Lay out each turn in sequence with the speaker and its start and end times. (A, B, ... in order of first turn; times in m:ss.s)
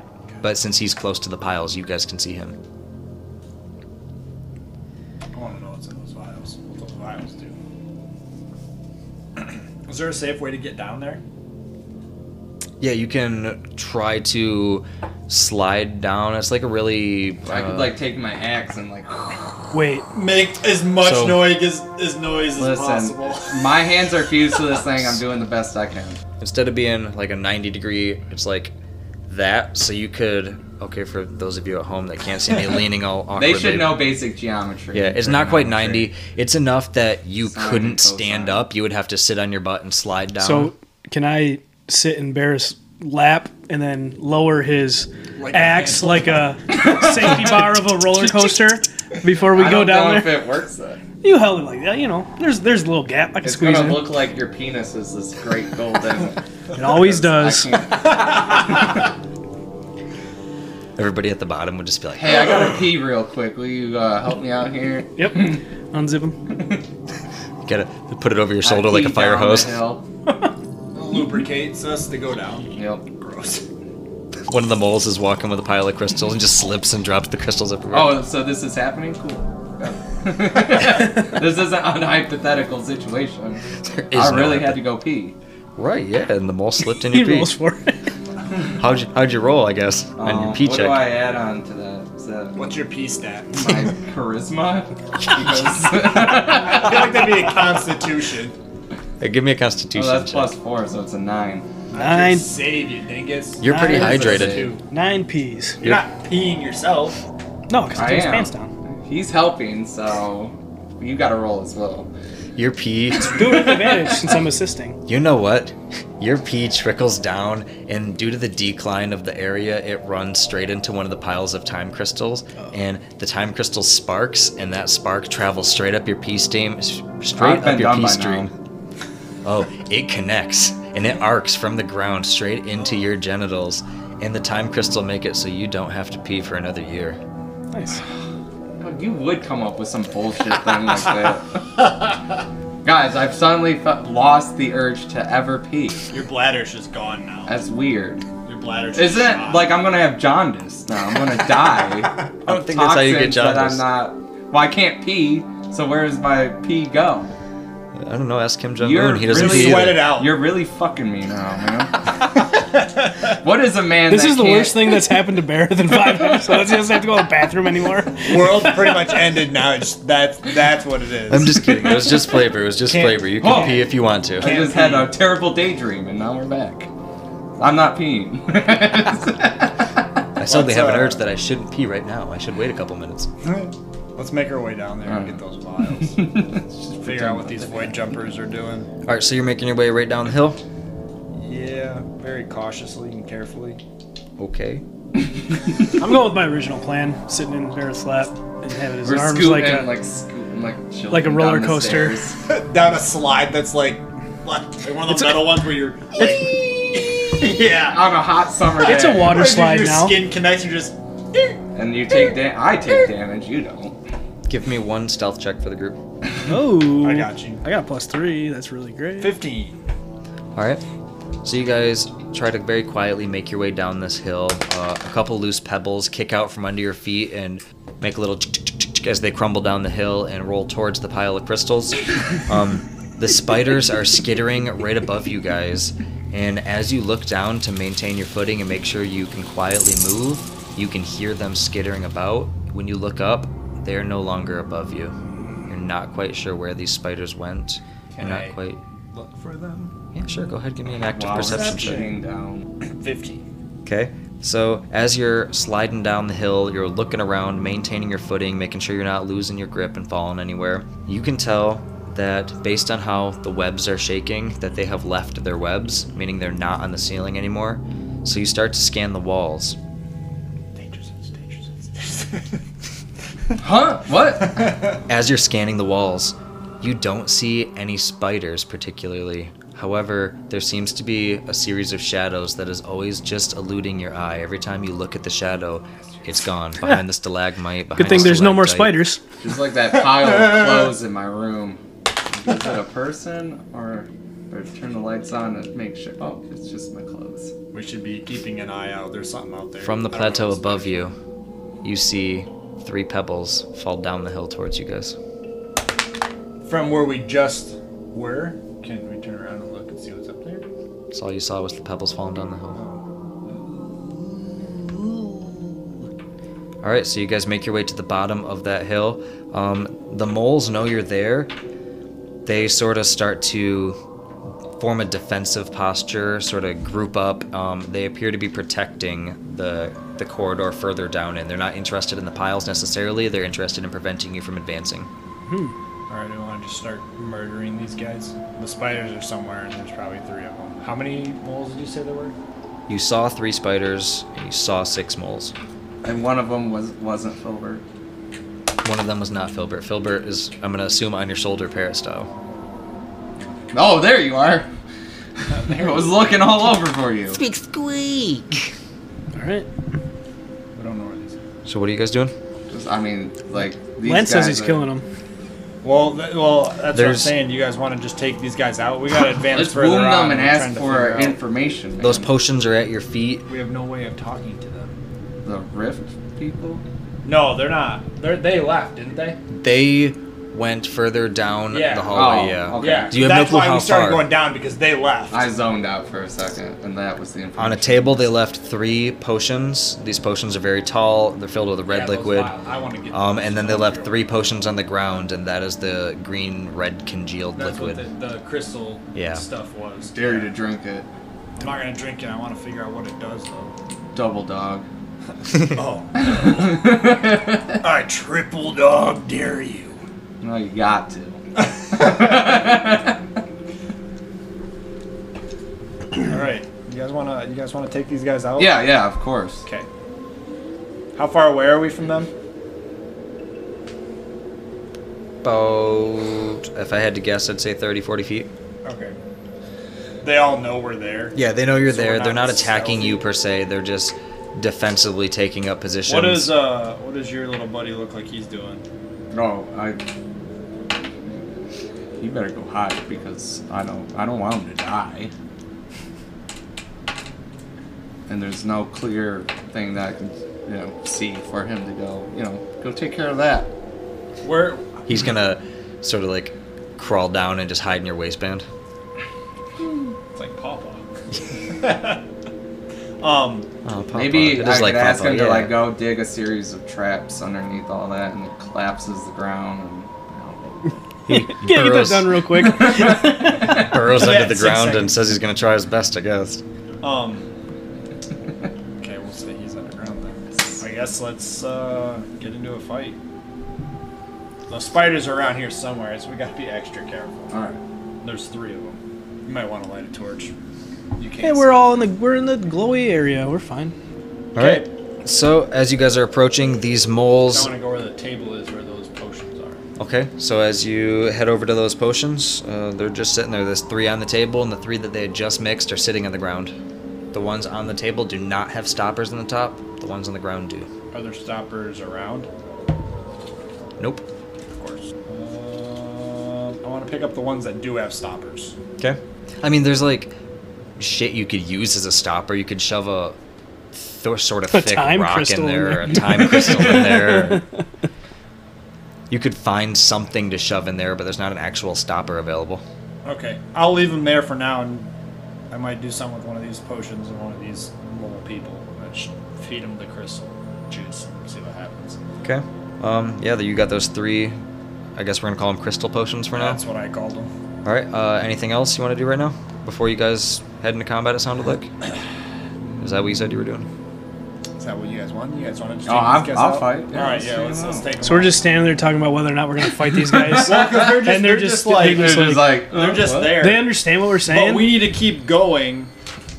0:00.4-0:02.6 A
0:05.3-0:07.5 B
0:09.4-0:11.2 B
0:12.8-0:17.9 A
0:17.5-0:19.5 C
0:19.7-0:20.1 D
0:20.1-0:23.7 B
0:21.0-0:21.6 A
0:22.6-0:26.2 C
0:26.4-0:28.7 A
0:29.3-0:34.0 A
0:33.3-0:36.1 C
0:34.9-0:40.7 A
0:37.4-0:38.6 C
0:40.4-0:50.4 D
0:45.4-0:46.8 B
0:49.5-0:51.0 C
0:51.2-0:54.1 D
0:53.4-0:58.9 C
0:56.7-0:57.7 D
1:01.0-1:02.8 A
1:02.2-1:05.6 C
1:05.2-1:06.4 D
1:07.6-1:09.8 A
1:08.6-1:10.0 C
1:10.9-1:13.6 B
1:12.7-1:13.0 C
1:14.5-1:18.2 A
1:17.9-1:25.3 C
1:23.8-1:24.8 A
1:25.8-1:27.5 A
1:27.1-1:27.9 D
1:28.8-1:31.0 A
1:30.2-1:32.6 C
1:32.6-1:33.7 B
1:33.5-1:37.2 C
1:36.6-1:38.5 B
1:39.2-1:40.5 A
1:39.9-1:41.7 C
1:41.9-1:44.8 B
1:41.9-1:42.5 D
1:43.6-1:44.7 A
1:43.6-1:45.8 D
1:43.8-1:44.7 C
1:45.8-1:47.2 B
1:47.7-1:48.7 D
1:47.9-1:52.1 C
1:52.6-1:53.4 A
1:53.2-1:55.0 D
1:53.2-1:54.3 C
1:55.1-2:08.5 A
2:07.3-2:08.5 C
2:09.4-2:17.2 A
2:17.7-2:18.0 D
2:18.8-2:21.6 C
2:22.8-2:26.0 C
2:26.1-2:27.6 B
2:27.4-2:28.2 C
2:28.4-2:29.7 B
2:28.9-2:37.3 C
2:32.4-2:33.8 A
2:38.0-2:40.1 A
2:38.8-2:42.0 C
2:39.3-2:40.4 B
2:42.8-2:43.1 B
2:43.4-2:44.9 C
2:44.1-2:49.2 D
2:48.2-2:51.6 B
2:51.3-2:54.5 A
2:52.8-2:53.8 B
2:53.4-2:53.8 C
2:54.4-2:55.1 B
2:54.4-2:56.9 C
2:57.6-2:59.8 C
3:00.4-3:03.3 A
3:00.4-3:01.2 B
3:03.4-3:06.5 B
3:05.0-3:05.4 C
3:06.0-3:08.1 C
3:07.0-3:08.9 B
3:09.0-3:10.6 A
3:11.3-3:13.8 B
3:14.4-3:14.8 A
3:16.0-3:19.9 D
3:19.0-3:22.4 C
3:21.1-3:22.2 D
3:22.4-3:28.1 B
3:25.1-3:25.5 D
3:26.2-3:26.4 D
3:27.4-3:29.4 C
3:28.8-3:30.2 D
3:28.9-3:31.6 B
3:31.7-3:34.0 C
3:34.5-3:36.0 A
3:36.5-3:39.4 D
3:37.0-3:37.6 B
3:39.2-3:39.8 B
3:40.5-3:40.8 A
3:41.4-4:05.2 A
4:05.7-4:08.8 A
4:08.1-4:08.6 B
4:09.1-4:09.9 B
4:10.1-4:12.0 A
4:11.0-4:12.7 C
4:11.3-4:12.2 B
4:12.8-4:13.4 B
4:13.8-4:29.8 A
4:30.7-4:32.6 B
4:33.6-4:34.8 C
4:35.1-4:49.0 A
4:47.9-4:49.2 D
4:49.4-4:51.8 C
4:52.3-4:57.5 C
4:57.7-5:01.0 B
4:59.8-5:01.1 A
5:01.8-5:05.2 A
5:06.6-5:10.6 B
5:11.1-5:12.8 A
5:12.7-5:14.1 B
5:16.8-5:21.5 A
5:22.4-5:24.0 A
5:24.8-5:35.1 A
5:35.5-5:35.7 D
5:36.1-5:42.3 B
5:42.9-5:45.5 A
5:46.0-5:47.8 C
5:48.8-5:52.3 A
5:53.7-5:54.7 C
5:55.5-5:56.4 B
5:55.6-5:57.4 C
5:57.4-5:58.7 A
5:59.4-5:59.7 D
6:00.7-6:01.4 B
6:01.6-6:02.3 A
6:02.7-6:04.8 C
6:04.0-6:05.0 D
6:05.8-6:11.4 B
6:06.9-6:07.3 A
6:09.5-6:12.3 C
6:12.0-6:13.5 A
6:13.5-6:15.0 B
6:15.4-6:16.8 C
6:17.2-6:19.4 B
6:19.5-6:24.3 A
6:21.7-6:25.5 B
6:22.1-6:23.2 C
6:25.3-6:28.3 C
6:27.6-6:32.5 A
6:31.9-6:34.2 B
6:33.1-6:38.0 A
6:37.5-6:40.6 B
6:39.1-6:39.4 A
6:40.1-6:41.1 C
6:41.6-6:43.7 B
6:44.1-6:44.9 C
6:45.6-6:47.0 B
6:46.3-6:47.6 C
6:47.8-6:50.0 B
6:50.4-6:53.2 C
6:56.2-6:58.9 B
6:58.6-6:59.6 C
7:01.1-7:02.3 B
7:05.4-7:08.5 A
7:08.8-7:09.2 B
7:10.2-7:13.2 B
7:11.3-7:16.6 A
7:16.0-7:18.8 B
7:19.3-7:20.0 C
7:22.2-7:25.3 C
7:28.3-7:33.7 C
7:34.4-7:35.1 B
7:35.1-7:38.6 A
7:40.3-7:41.0 B
7:41.8-7:42.2 B
7:43.2-7:43.7 B
7:43.8-7:45.8 A
7:44.1-7:50.9 C
7:51.3-7:52.3 A
7:51.3-7:53.6 D
7:52.6-7:53.9 C
7:53.6-7:56.6 A
7:53.9-7:55.2 B
7:57.0-7:57.5 B
7:59.0-8:03.2 B
8:04.7-8:07.5 B
8:07.5-8:07.8 C
8:08.2-8:10.5 B
8:11.2-8:11.7 B
8:11.4-8:13.9 D
8:14.5-8:17.7 A
8:14.6-8:14.9 B
8:17.5-8:19.8 B
8:20.0-8:26.7 A
8:27.3-8:30.9 A
8:31.1-8:32.5 B
8:34.0-8:34.2 A
8:34.8-8:38.8 B
8:39.0-8:40.3 A
8:41.0-8:43.4 A
8:43.9-8:47.6 A
8:44.7-8:47.7 D
8:49.3-8:52.8 A
8:53.2-8:55.1 B
8:55.7-9:02.2 B
9:02.4-9:04.6 A
9:05.2-9:06.8 A
9:06.5-9:07.5 B
9:07.8-9:11.9 A
9:13.0-9:13.9 A
9:14.8-9:18.7 B
9:16.0-9:18.1 C
9:18.2-9:22.8 D
9:20.4-9:20.9 C
9:20.5-9:26.1 B
9:22.0-9:23.7 C
9:23.4-9:25.0 D